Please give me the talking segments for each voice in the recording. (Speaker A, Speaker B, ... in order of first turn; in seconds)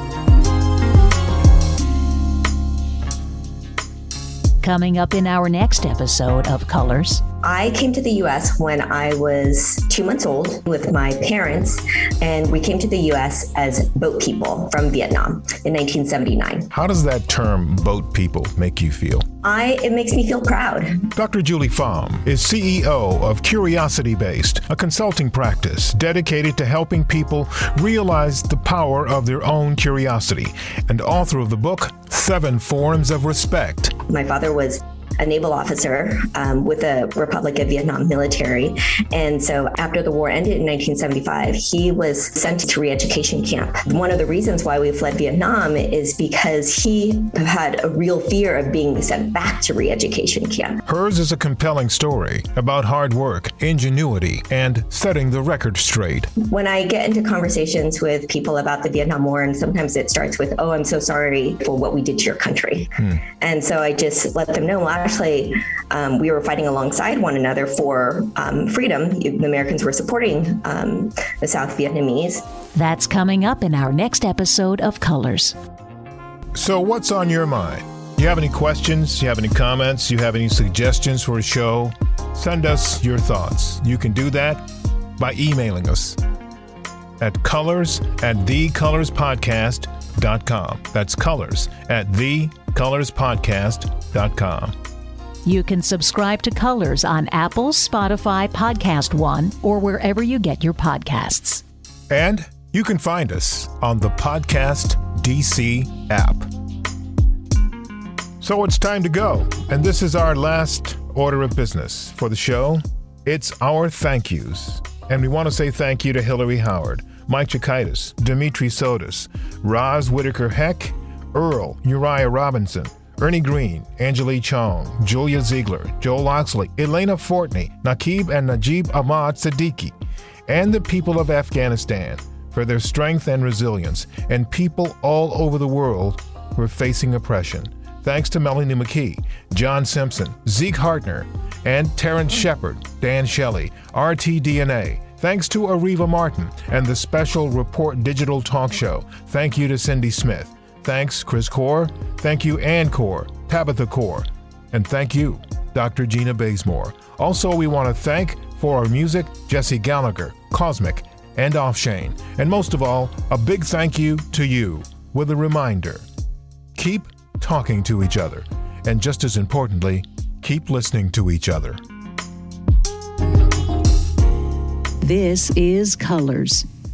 Speaker A: 4.6-7.2, 72.7-75.5, 95.4-101.6, 175.0-176.7
Speaker B: 7.4-16.7, 19.4-21.0, 34.1-50.8, 56.5-72.4
Speaker C: 16.7-19.2, 21.1-33.9, 50.9-56.3, 76.5-84.7, 85.2-86.2, 87.2-94.7, 102.1-106.5, 108.4-129.9, 130.5-166.0, 166.7-171.8